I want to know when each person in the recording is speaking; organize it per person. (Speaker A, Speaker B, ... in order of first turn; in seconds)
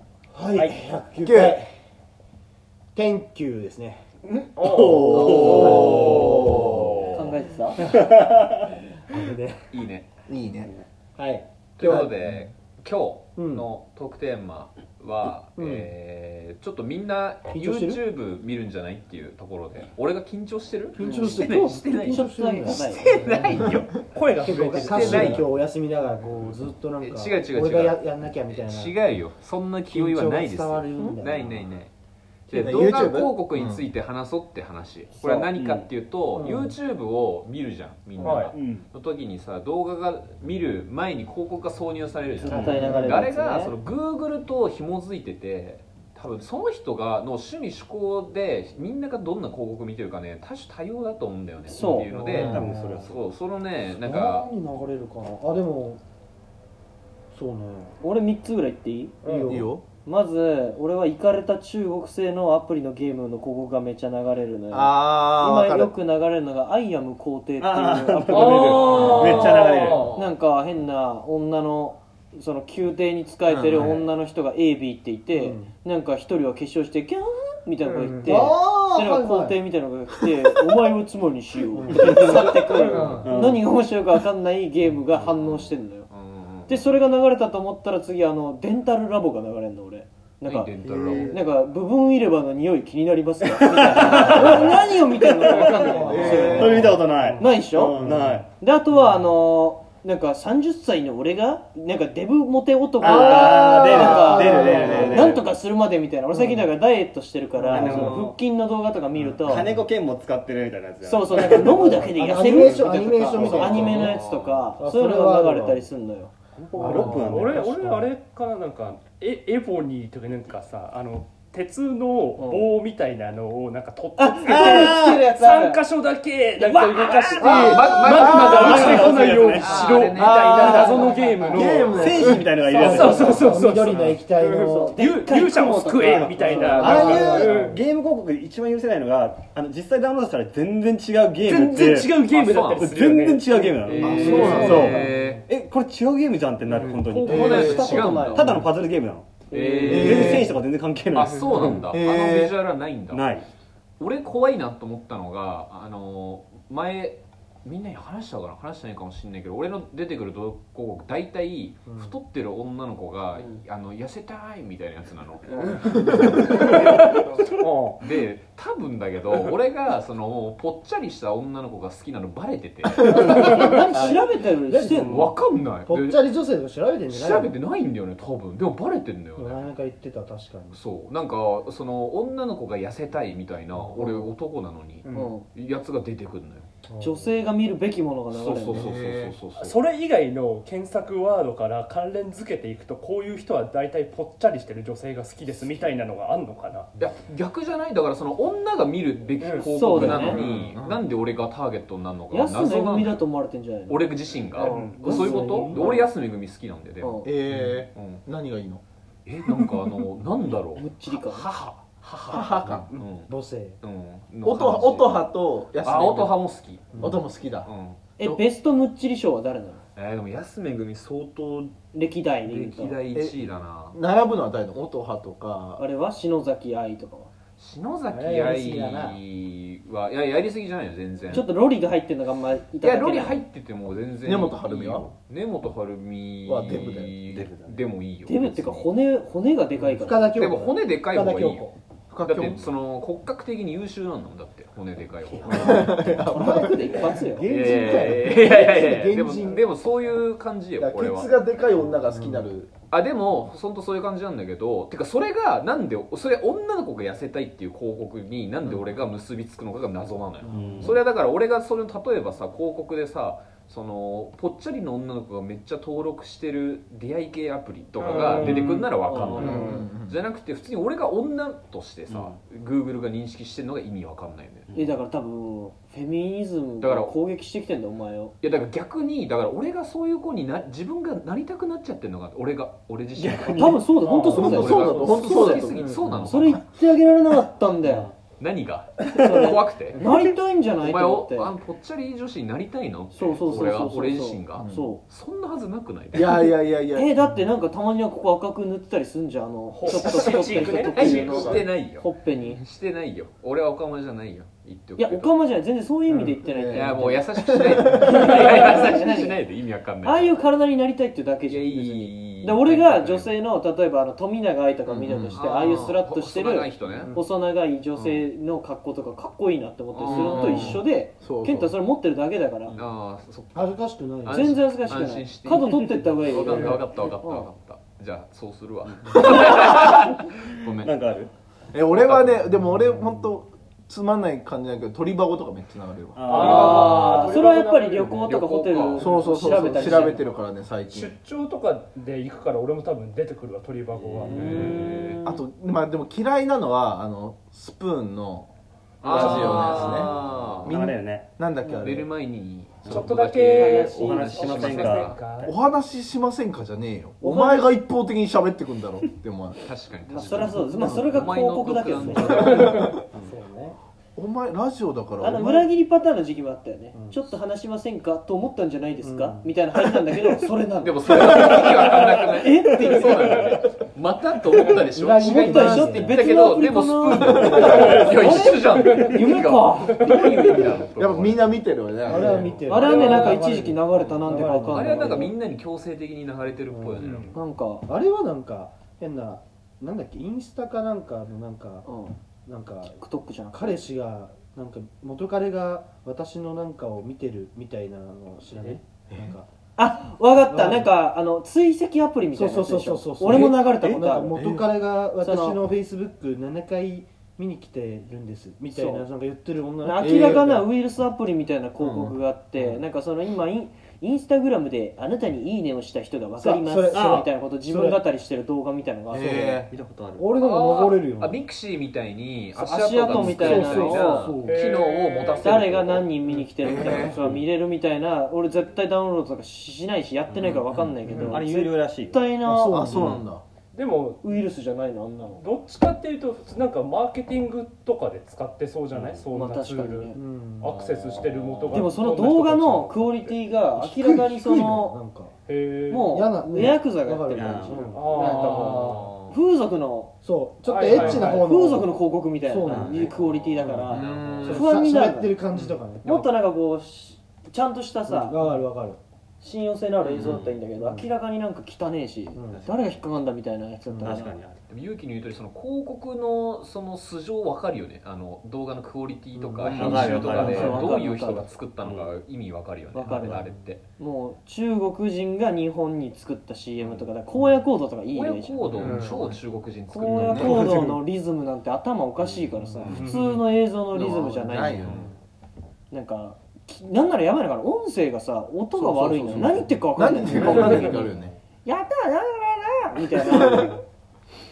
Speaker A: 0.3-1.7, 2.9-4.0, 5.3-5.7, 9.1-9.6, 11.2-12.3, 13.4-13.7, 15.6-15.9, 17.5-18.0, 21.0-23.7, 24.4-29.0, 29.9-31.8, 36.3-36.8, 42.8-43.1, 52.1-53.1, 54.0-56.0, 57.3-57.9, 59.2-59.7, 75.3-75.7, 78.2-79.6, 81.7-83.4, 90.8-91.4, 94.2-94.6, 95.5-97.0, 97.9-98.3, 103.0-105.4, 107.6-108.2, 111.3-114.2, 114.8-115.8, 116.8-118.1, 127.4-128.4, 131.5-135.0, 136.4-137.8, 144.1-145.4, 147.3-148.5, 161.9-162.2, 173.0-177.6, 179.3-180.8, 183.8-184.3, 186.9-187.3, 205.0-206.0, 213.3-213.8, 216.9-217.2, 228.1-229.2, 239.9-241.8, 245.5-249.7, 251.9-252.5, 260.4-261.0, 285.8-286.0, 297.2-297.4, 306.1-306.4, 316.9-317.2, 323.6-324.6, 360.5-361.2, 361.9-362.4, 363.1-363.8, 366.9-367.2, 369.0-369.5, 374.9-376.2, 382.1-385.3, 386.6-387.3, 387.9-391.9, 392.4-392.9, 393.5-399.5, 400.4-400.9, 402.3-410.6, 416.4-418.0, 420.2-421.4, 423.1-424.6, 431.1-431.4, 432.4-433.2, 440.1-441.1, 443.8-445.3, 446.1-448.7, 450.2-456.1, 458.1-459.0, 460.8-461.1, 462.3-462.7, 463.9-464.3, 469.4-470.8, 490.2-490.9
Speaker B: 1.2-1.6, 5.2-6.9, 10.3-10.7, 32.5-33.9, 52.3-52.7, 59.5-59.8, 64.7-65.9, 73.5-74.0, 78.4-78.8, 96.0-96.9, 128.2-128.7, 130.2-132.4, 144.0-145.0, 147.3-148.2, 149.8-150.4, 151.8-152.6, 188.7-189.4, 200.3-201.0, 207.2-208.8, 212.3-212.9, 214.4-216.4, 217.0-217.7, 223.9-225.8, 234.2-235.1, 236.4-237.5, 242.1-242.6, 245.5-246.8, 250.8-252.7, 269.4-270.2, 284.2-286.2, 294.6-295.0, 296.1-297.1, 300.9-301.6, 306.4-308.3, 320.1-321.7, 331.7-337.5, 339.0-341.1, 345.2-348.5, 349.0-352.1, 355.4-359.6, 362.4-362.9, 364.2-365.6, 377.5-377.9, 380.9-382.5, 404.3-404.7, 410.0-410.6, 411.8-412.1, 419.1-419.7, 426.6-427.2, 432.6-433.4, 469.6-470.0, 483.9-485.0, 488.8-491.3, 493.2-493.8
Speaker C: 4.3-6.6, 7.8-8.6, 35.5-35.9, 38.5-38.8, 42.5-42.9, 52.3-53.1, 67.6-70.1, 83.2-83.6, 93.5-98.5, 103.0-105.5, 106.3-106.7, 107.7-108.3, 109.2-114.1, 116.8-118.0, 124.4-125.3, 128.2-129.9, 131.9-133.6, 135.9-151.8, 153.1-153.5, 237.5-237.8, 260.5-261.0, 269.3-269.6, 272.1-272.4, 274.7-275.0, 283.1-283.8, 330.8-331.3, 336.2-337.4, 344.0-344.7, 349.1-351.3, 352.8-355.5, 416.9-417.3, 419.7-420.3, 426.9-427.4, 430.3-432.2, 438.9-439.2, 447.3-447.9, 452.6-454.6, 460.0-460.6, 464.0-464.6, 469.7-470.9, 471.8-472.1, 480.1-481.0
Speaker D: 4.5-5.2, 23.9-25.4, 38.2-38.5, 59.2-59.6, 68.3-70.1, 77.8-78.4, 82.7-83.2, 98.1-98.4, 116.6-134.2, 134.9-137.8, 141.4-143.9, 146.7-147.1, 165.7-168.1, 189.6-196.9, 199.4-200.7, 204.6-205.1, 268.0-269.7, 284.0-284.8, 299.7-301.6, 336.3-338.2, 339.6-339.9, 340.9-345.2, 352.9-355.6, 362.5-362.8, 378.9-379.2, 387.0-387.3, 424.4-425.5, 433.7-434.2, 435.3-443.3, 445.5-446.1, 447.9-449.1, 450.6-451.4, 478.8-479.2, 483.0-483.4
Speaker E: 5.0-7.3, 9.7-10.1, 11.8-24.0, 24.6-25.4, 27.0-31.9, 32.5-54.5, 68.8-70.3, 82.8-83.3, 85.2-86.9, 90.5-91.3, 94.2-94.6, 113.8-114.7, 127.4-131.2, 142.3-143.0, 143.8-145.4, 147.0-148.7, 149.5-150.6, 151.1-153.4, 154.0-167.0, 168.0-174.1, 175.0-176.2, 177.1-179.7, 180.7-186.7, 188.3-189.8, 197.0-203.2, 203.9-208.2, 209.2-213.3, 213.8-217.0, 217.6-218.0, 220.0-221.8, 222.4-224.0, 227.6-231.5, 232.8-238.9, 240.3-241.7, 242.2-246.1, 247.5-251.4, 252.9-274.7, 276.8-277.1, 278.4-286.6, 288.4-290.1, 290.8-296.5, 300.9-305.3, 306.7-310.4, 311.4-313.3, 314.9-317.1, 317.9-318.2, 319.9-320.8, 322.7-330.9, 331.9-332.6, 336.8-337.5, 338.2-339.1, 344.3-345.2, 349.0-350.8, 351.8-355.2, 359.6-362.8, 370.8-381.5, 382.2-383.4, 384.7-387.4, 420.4-426.1, 441.2-441.9, 448.1-449.4, 453.1-454.6, 455.9-456.3, 464.7-473.8, 478.1-480.7, 482.8-483.1, 484.8-485.1
Speaker F: 7.1-7.9, 21.1-21.4, 22.1-23.1, 42.4-43.8, 51.7-52.1, 58.0-59.1, 60.0-86.1, 86.7-98.0, 98.6-109.7, 111.0-116.3, 122.4-122.7, 124.2-125.8, 126.6-127.9, 130.6-131.7, 134.4-137.2, 147.3-148.5, 149.5-150.5, 173.1-175.2, 185.1-185.5, 187.0-188.9, 199.7-200.4, 202.3-206.1, 207.0-207.3, 210.8-211.5, 218.2-219.8, 221.9-223.0, 225.8-227.3, 231.3-233.4, 238.2-240.3, 246.2-247.5, 269.1-269.8, 274.7-278.4, 283.6-288.1, 289.1-291.5, 293.1-295.0, 296.9-302.6, 305.0-307.3, 307.8-309.4, 310.0-322.8, 324.3-327.5, 336.3-340.3, 357.2-357.7, 360.1-362.9, 365.2-373.5, 375.2-380.7, 382.6-385.3, 387.3-387.9, 391.9-392.2, 392.9-393.8, 399.8-404.3, 405.2-405.6, 408.7-409.1, 409.8-419.6, 422.6-424.4, 425.4-432.8, 434.2-435.5, 439.3-440.2, 441.7-445.0, 445.9-448.7, 449.3-450.1, 450.9-455.4, 456.0-458.4, 459.4-464.4, 470.0-471.5, 472.9-473.4, 474.0-479.1, 479.9-484.9, 485.9-491.1, 491.6-493.8